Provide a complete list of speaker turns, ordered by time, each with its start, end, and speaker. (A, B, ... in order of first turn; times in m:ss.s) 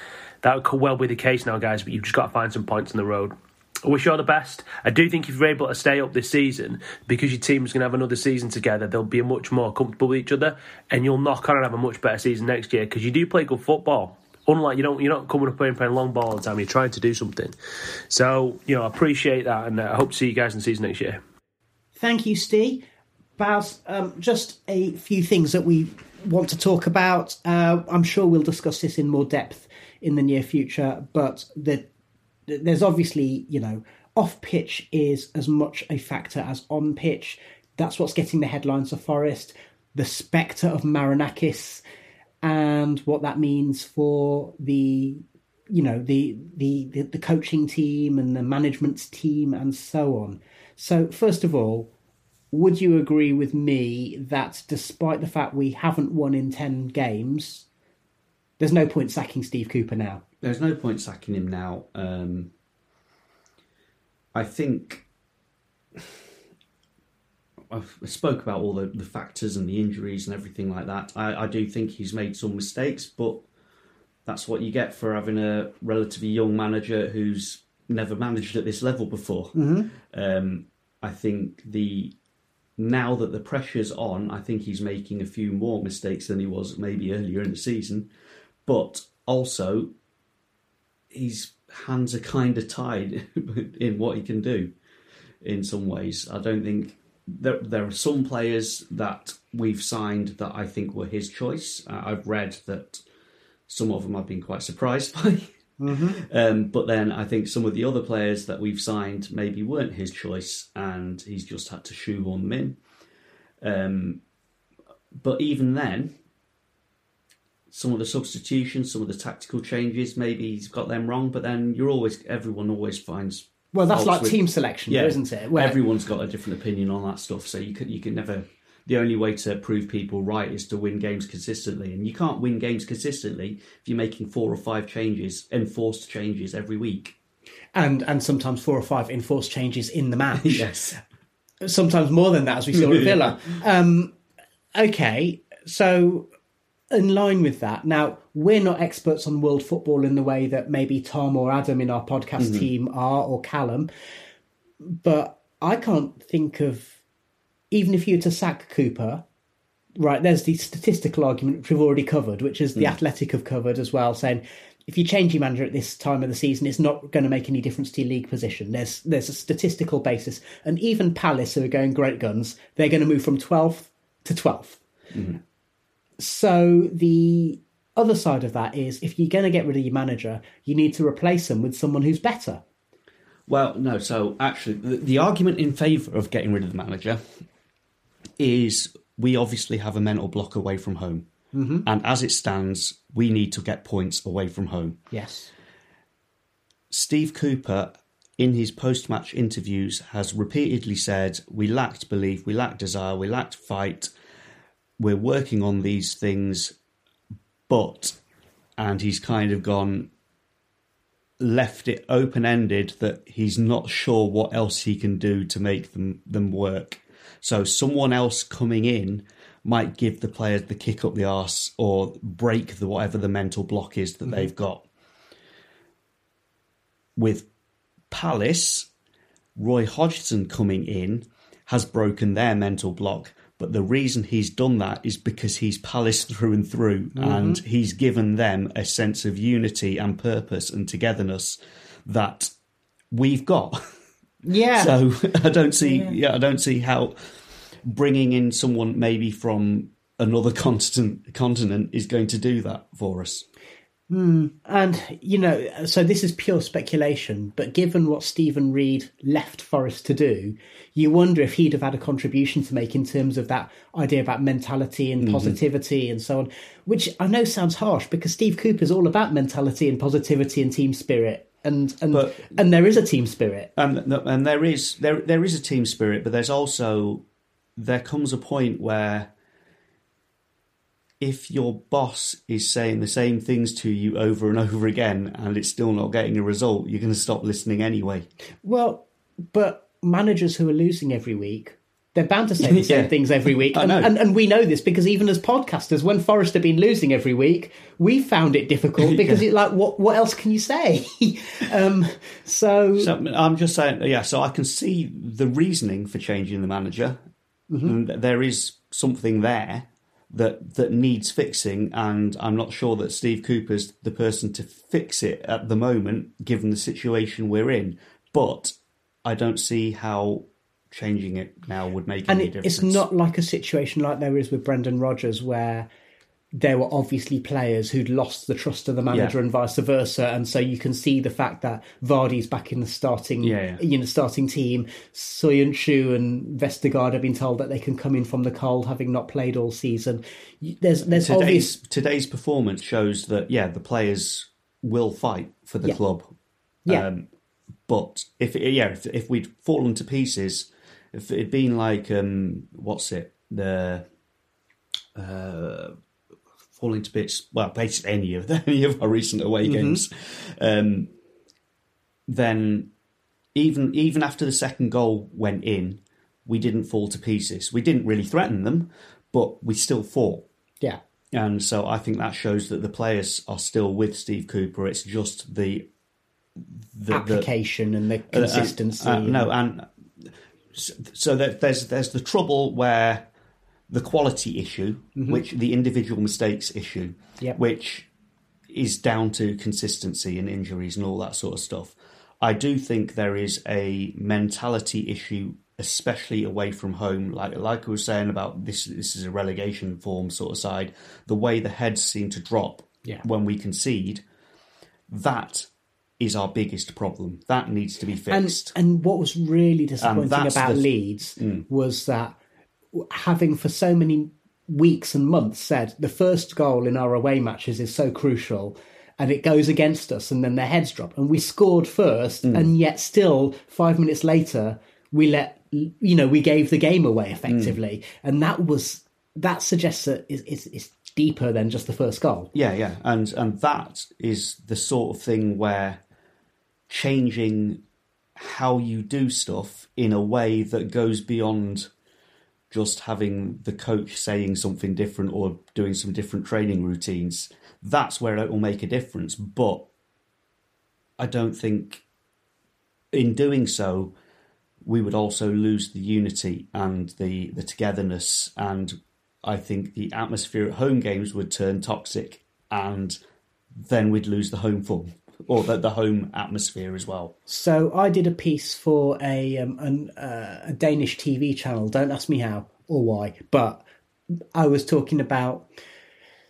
0:00.4-0:17.5 A
0:18.1-0:21.2 A
0:22.0-0:22.8 B
0:23.4-0:31.9 B
0:32.5-0:41.8 B
0:42.4-0:51.9 B
0:52.5-0:57.6 B
0:58.6-1:00.2 B
1:00.4-1:02.5 C
1:04.3-1:05.0 C
1:07.7-1:13.4 C
1:14.2-1:22.1 C
1:19.5-1:19.9 B
1:22.8-1:28.1 C
1:28.6-1:29.9 C
1:31.1-1:34.7 C
1:35.4-1:43.0 C
1:43.7-1:45.5 C
1:45.8-1:46.2 B
1:46.1-1:52.8 C
1:53.6-1:54.2 C
1:55.1-1:56.1 C
1:57.7-2:17.1 C
2:03.7-2:05.8 B
2:17.7-2:20.7 B
2:20.4-2:21.0 C
2:21.6-2:24.1 B
2:22.8-2:23.1 C
2:24.7-2:26.3 B
2:26.9-2:33.9 B
2:32.4-2:32.7 C
2:34.8-2:37.0 B
2:37.7-2:39.2 B
2:40.0-2:54.8 B
2:55.1-2:55.4 C
2:56.2-3:02.6 B
3:03.5-3:07.2 C
3:08.4-3:11.3 C
3:11.5-3:11.9 B
3:11.8-3:15.0 C
3:15.1-3:15.5 B
3:16.9-3:24.1 C
3:25.0-3:26.7 C
3:27.7-3:28.2 C
3:28.8-3:30.1 C
3:31.4-3:44.9 C
3:47.2-3:47.5 C
3:48.1-3:48.9 C
3:49.6-4:02.5 C
3:57.1-3:57.6 B
4:03.1-4:03.8 C
4:04.4-4:04.9 B
4:04.7-4:07.3 C
4:05.8-4:06.2 B
4:07.8-4:13.4 C
4:14.1-4:33.7 B
4:25.2-4:25.6 C
4:32.1-4:32.5 C
4:33.8-4:37.2 C
4:37.8-4:39.3 C
4:41.2-4:48.3 C
4:48.6-5:03.1 B
4:52.6-4:54.1 C
4:59.0-4:59.4 C
5:03.0-5:07.2 C
5:07.7-5:08.0 B
5:07.8-5:23.0 C
5:22.3-5:25.9 B
5:26.5-5:41.7 B
5:33.4-5:33.8 C
5:41.0-5:46.3 C
5:46.9-5:47.3 C
5:47.9-5:54.0 C
5:55.1-5:55.9 C
5:56.7-6:01.1 C
5:59.6-6:00.0 B
6:02.3-6:02.9 C
6:03.5-6:10.4 C
6:11.3-6:15.9 C
6:16.6-6:17.5 C
6:17.1-6:19.5 B
6:18.3-6:23.3 C
6:23.9-6:28.1 C
6:25.2-6:25.4 B
6:28.7-6:44.2 C
6:45.1-6:48.7 C
6:48.3-6:52.4 B
6:50.0-6:51.6 C
6:52.9-7:12.5 B
7:02.4-7:02.7 C
7:07.5-7:07.8 C
7:12.5-7:16.0 C
7:16.9-7:17.8 C
7:18.4-7:21.9 C
7:22.7-7:29.9 C
7:31.2-7:32.0 C
7:33.1-7:34.1 C
7:34.8-7:43.2 C
7:43.7-7:47.3 C
7:47.5-7:53.8 B
7:54.5-7:55.7 B